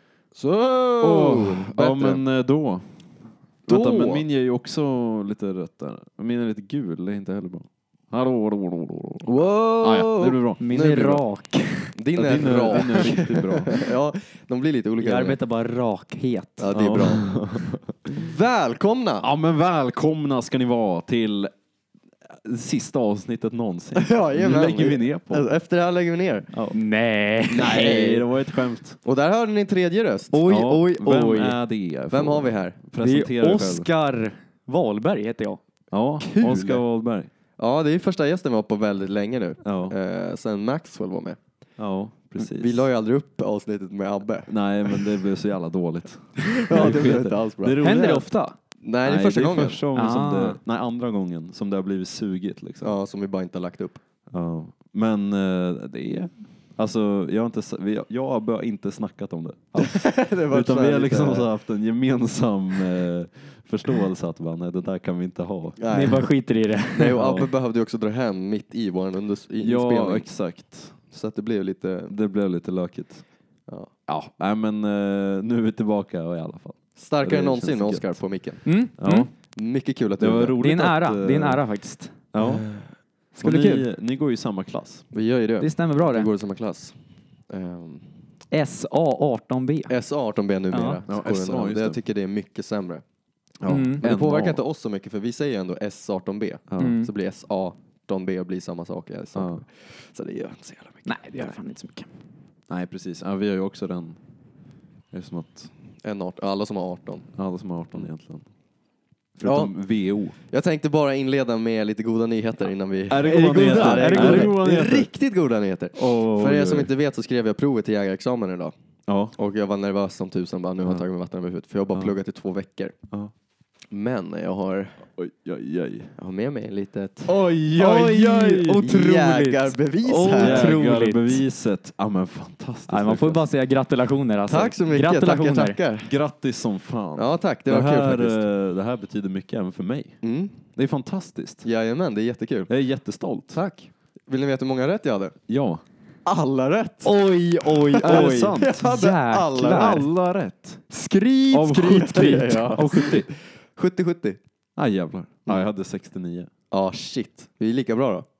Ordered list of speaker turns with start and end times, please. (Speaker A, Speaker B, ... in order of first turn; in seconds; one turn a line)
Speaker A: 0.3-2.2
Speaker B: 1.0-3.0
Speaker B: 3.6-10.6
Speaker A: 3.6-4.2
Speaker A: 9.2-11.2
Speaker C: 10.6-12.0
Speaker A: 11.9-15.4
Speaker B: 12.1-13.7
Speaker C: 12.7-13.1
Speaker C: 15.0-17.0
Speaker A: 16.6-19.3
Speaker B: 16.7-18.2
Speaker B: 19.2-21.5
Speaker B: 22.3-25.5
Speaker A: 23.9-26.5
Speaker B: 26.5-26.8
Speaker C: 26.7-28.2
Speaker A: 27.5-28.2
Speaker B: 27.5-29.0
Speaker A: 29.0-30.4
Speaker C: 30.3-31.6
Speaker B: 30.4-33.9
Speaker A: 32.1-32.8
Speaker C: 33.0-35.6
Speaker B: 35.9-37.3
Speaker A: 36.2-36.8
Speaker A: 37.6-41.4
Speaker B: 39.6-39.9
Speaker B: 41.8-42.9
Speaker A: 42.4-45.0
Speaker B: 44.5-48.3
Speaker A: 46.6-47.8
Speaker C: 47.8-48.6
Speaker A: 48.8-49.8
Speaker B: 49.0-53.0
Speaker C: 49.9-50.6
Speaker A: 52.8-54.0
Speaker B: 54.3-65.8
Speaker A: 59.8-61.5
Speaker A: 65.8-66.3
Speaker C: 65.9-67.2
Speaker A: 66.9-70.3
Speaker B: 67.2-67.5
Speaker B: 69.6-71.0
Speaker A: 71.0-72.1
Speaker B: 72.1-73.2
Speaker B: 74.1-78.2
Speaker A: 77.0-78.7
Speaker C: 78.6-79.3
Speaker B: 79.0-79.3
Speaker A: 79.5-80.6
Speaker B: 80.2-81.6
Speaker C: 80.6-82.2
Speaker B: 82.3-82.6
Speaker A: 82.4-82.9
Speaker C: 83.3-83.9
Speaker B: 83.3-85.0
Speaker A: 85.1-88.1
Speaker C: 85.6-86.3
Speaker C: 88.5-90.0
Speaker A: 89.9-93.0
Speaker C: 90.7-91.0
Speaker B: 91.1-92.0
Speaker B: 93.6-94.6
Speaker C: 93.7-94.0
Speaker A: 94.0-101.6
Speaker B: 96.7-97.0
Speaker C: 96.8-97.1
Speaker B: 99.3-99.6
Speaker C: 101.0-102.1
Speaker B: 102.7-104.2
Speaker B: 105.1-105.7
Speaker A: 106.0-107.3
Speaker B: 107.3-108.5
Speaker B: 109.3-110.3
Speaker A: 109.4-109.8
Speaker A: 110.4-118.7
Speaker B: 113.1-115.1
Speaker C: 113.3-114.5
Speaker B: 115.9-116.9
Speaker B: 119.1-119.3
Speaker A: 119.3-122.9
Speaker A: 123.9-125.0
Speaker B: 125.2-126.2
Speaker A: 126.2-130.8
Speaker B: 127.2-128.9
Speaker C: 127.8-131.4
Speaker B: 130.4-133.4
Speaker C: 132.9-135.8
Speaker A: 134.5-136.1
Speaker B: 136.0-140.2
Speaker A: 137.2-138.4
Speaker A: 140.2-140.6
Speaker B: 140.7-141.7
Speaker A: 141.6-142.7
Speaker B: 142.7-143.6
Speaker A: 143.5-145.3
Speaker B: 145.5-145.8
Speaker A: 146.2-150.0
Speaker C: 147.0-150.1
Speaker B: 148.0-148.8
Speaker B: 149.7-150.8
Speaker C: 150.9-153.0
Speaker B: 151.5-153.3
Speaker A: 151.8-154.4
Speaker B: 154.8-156.5
Speaker A: 156.7-158.3